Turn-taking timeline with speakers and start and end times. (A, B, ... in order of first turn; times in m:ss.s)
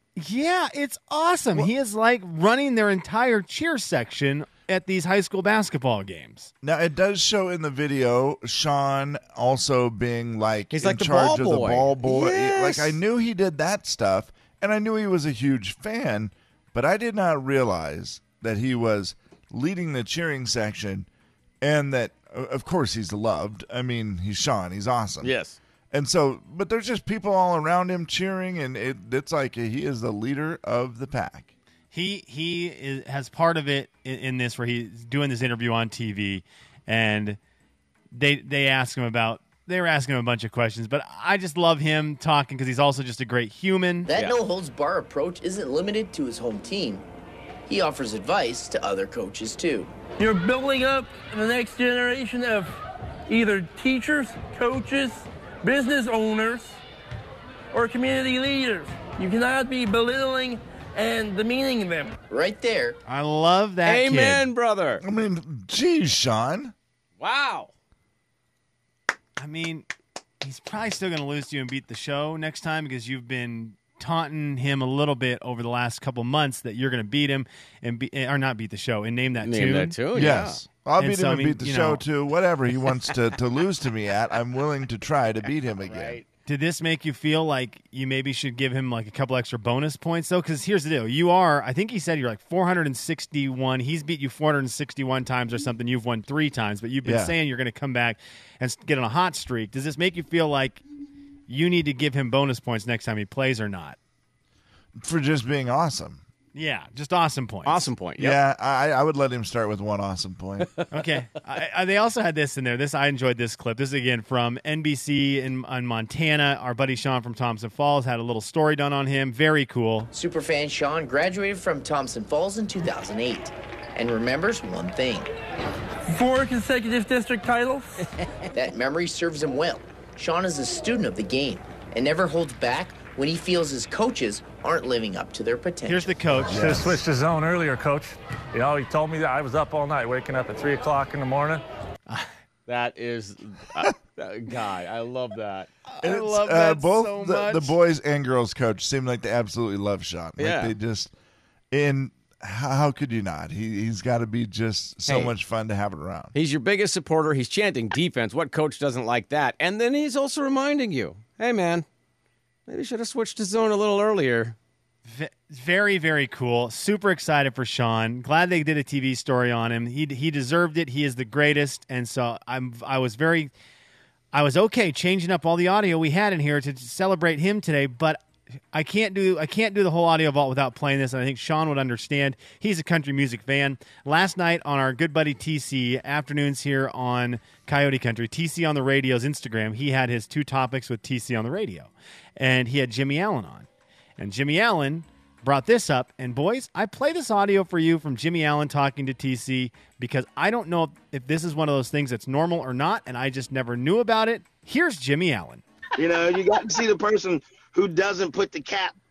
0:00.2-0:06.5 A
0:06.6-0:21.1 B
0:10.7-0:13.0 C
0:21.6-0:25.3 B
0:25.2-0:25.6 C
0:25.9-0:31.5 B
0:31.9-0:37.4 A
0:38.1-0:44.1 A
0:44.0-0:47.0 D
0:47.7-0:49.9 D
0:50.2-0:56.8 E
0:57.7-1:02.1 E
1:02.3-1:03.0 D
1:03.0-1:04.4 A
1:03.8-1:05.0 C
1:05.0-1:06.7 B
1:07.2-1:07.7 C
1:09.4-1:09.9 A
1:10.4-1:19.9 A
1:19.4-1:20.6 C
1:20.1-1:26.2 B
1:21.0-1:22.0 A
1:25.8-1:26.2 C
1:26.5-1:40.8 A
1:37.0-1:37.3 B
1:41.5-1:44.0 A
1:45.0-1:46.2 B
1:46.5-1:47.8 A
1:47.7-1:48.4 C
1:48.2-1:50.7 B
1:50.9-2:00.1 A
2:00.1-2:05.3 D
2:06.1-2:07.9 E
2:08.5-2:16.2 D
2:15.8-2:16.7 A
2:16.5-2:17.0 B
2:16.5-2:21.6 F
2:22.7-2:25.7 C
2:25.9-2:27.8 A
2:26.0-2:31.1 B
2:30.4-2:30.7 C
2:31.7-2:36.3 B
2:35.0-2:35.3 C
2:36.3-2:41.8 C
2:42.7-2:44.6 C
2:45.0-2:53.5 A
2:54.3-3:13.7 A
3:14.2-3:25.6 A
3:26.0-3:29.0 G